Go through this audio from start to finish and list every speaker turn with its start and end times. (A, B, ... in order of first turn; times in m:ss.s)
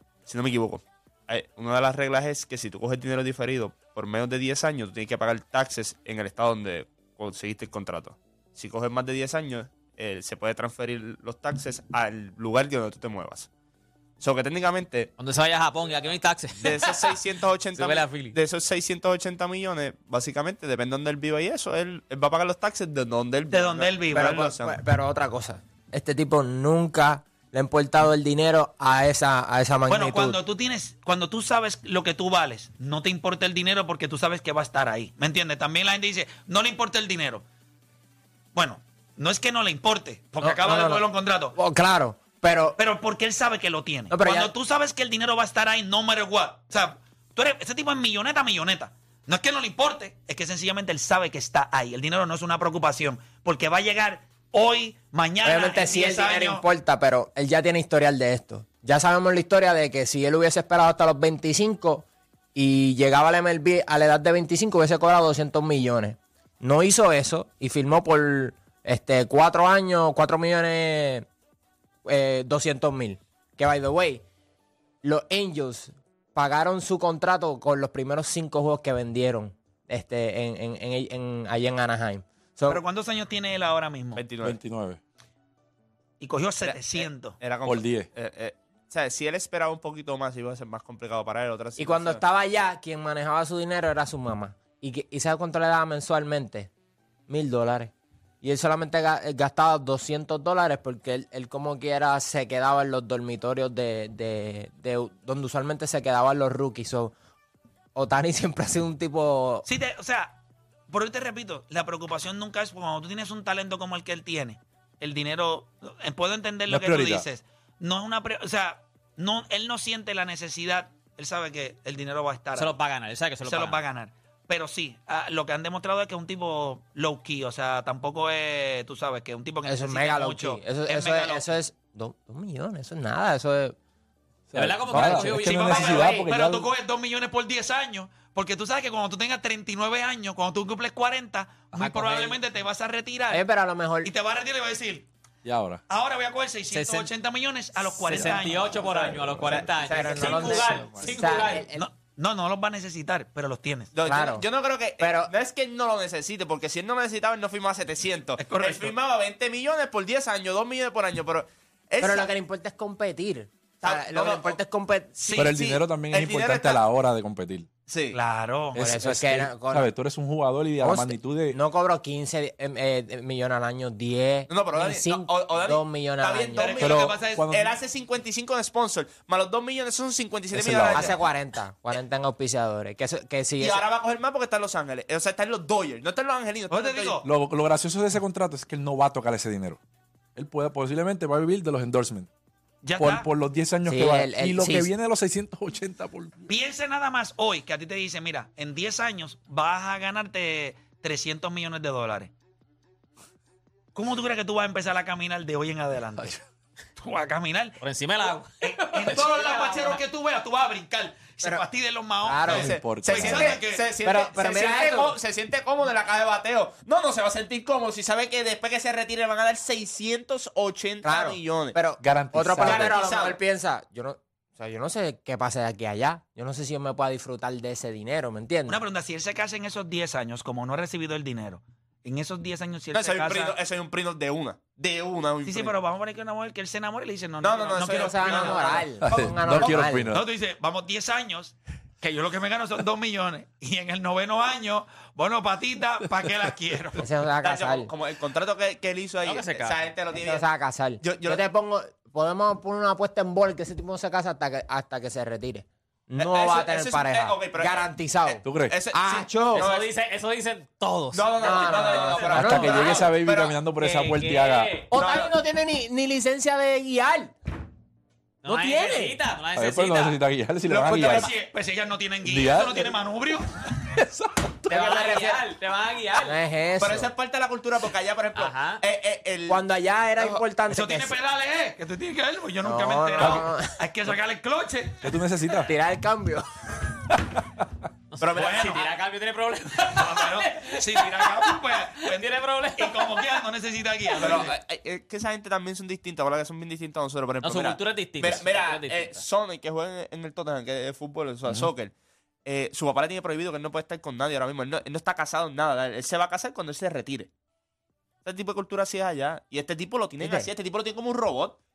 0:00.3-0:13.5 A
0:14.2-0:15.1 A
0:15.2-0:17.2 B
0:16.6-0:24.8 A
0:17.7-0:18.4 B
0:23.5-0:24.4 C
0:24.1-0:30.4 D
0:29.9-0:37.4 C
0:38.6-0:41.6 C
0:40.4-0:42.8 D
0:42.8-0:56.6 C
0:44.1-0:44.5 D
0:55.4-1:11.3 D
1:12.0-1:14.2 D
1:15.0-1:22.8 D
1:22.7-1:24.2 C
1:24.2-1:24.6 A
1:24.4-1:25.0 E
1:26.2-1:27.4 C
1:26.6-1:32.2 A
1:27.6-1:28.1 E
1:31.8-1:36.7 D
1:37.3-1:47.2 D
1:48.0-1:49.7 D
1:49.7-1:50.4 C
1:50.9-2:02.8 C
1:56.7-1:57.3 E
2:02.6-2:03.8 B
2:03.4-2:11.4 C
2:09.7-2:13.8 D
2:14.5-2:16.7 E
2:14.5-2:16.1 B
2:15.0-2:15.2 D
2:15.2-2:23.4 C
2:21.8-2:22.4 B
2:23.3-2:24.1 D
2:24.0-2:25.1 C
2:25.4-2:25.8 E
2:25.9-2:28.8 C
2:26.7-2:27.1 B
2:28.0-2:31.7 B
2:28.1-2:29.7 E
2:29.4-2:30.8 A
2:29.8-2:31.9 D
2:31.8-2:33.9 C
2:33.9-2:42.3 A
2:34.1-2:34.5 D
2:35.0-2:35.3 D
2:38.4-2:38.9 C
2:42.0-2:45.4 D
2:43.8-2:44.6 A
2:45.2-2:45.8 C
2:45.4-2:47.7 E
2:45.4-2:46.8 A
2:47.9-2:48.2 A
2:48.1-2:48.8 C
2:48.7-2:51.6 E
2:48.8-2:49.9 D
2:50.8-2:56.7 D
2:54.5-3:01.2 A
2:56.6-2:57.5 C
2:56.8-2:57.7 E
3:00.5-3:01.1 E
3:00.9-3:03.8 D
3:03.6-3:07.2 A
3:06.7-3:07.3 C
3:07.2-3:09.8 E
3:10.4-3:12.3 E
3:12.8-3:13.3 C
3:13.0-3:16.5 E
3:13.8-3:14.9 D
3:16.5-3:22.3 C
3:24.0-3:26.4 C
3:27.0-3:27.8 C
3:27.8-3:29.6 B
3:28.6-3:33.9 C
3:29.2-3:29.7 D
3:32.2-3:32.7 D
3:32.4-3:41.8 A
3:32.5-3:33.6 E
3:34.0-3:35.2 D
3:41.0-3:48.8 D
3:42.0-3:43.0 E
3:42.6-3:43.4 A
3:48.7-3:53.6 C
3:52.9-3:55.7 A
3:55.4-3:58.8 C
3:57.4-3:59.0 A
3:57.9-4:00.1 D
3:59.1-4:00.2 E
4:00.1-4:07.0 C
4:07.0-4:07.9 D
4:07.4-4:10.5 A
4:09.2-4:09.8 B
4:10.1-4:18.4 D
4:11.0-4:11.4 A
4:16.2-4:19.9 A
4:18.4-4:18.8 E
4:18.9-4:19.7 D
4:19.5-4:23.1 B
4:21.1-4:23.7 A
4:21.4-4:23.0 D
4:22.3-4:24.7 E
4:23.8-4:25.3 B
4:24.9-4:27.3 D
4:28.4-4:30.2 B
4:28.5-4:29.2 D
4:29.6-4:31.3 E
4:30.7-4:33.5 C
4:32.2-4:32.9 E
4:33.9-4:34.7 E
4:34.7-4:36.4 B
4:34.7-4:35.4 D
4:36.2-4:37.1 D
4:36.8-4:39.6 A
4:38.3-4:38.8 B
4:39.5-4:41.2 D
4:40.7-4:45.1 C
4:42.6-4:43.7 D
4:45.0-4:45.7 E
4:45.6-4:46.5 D
4:48.1-4:53.4 B
4:48.2-4:48.9 A
4:48.4-4:48.8 C
4:49.9-4:54.5 C
4:54.2-5:01.9 A
4:57.4-4:59.3 B
5:02.4-5:07.3 A
5:08.2-5:11.6 A
5:10.2-5:10.5 D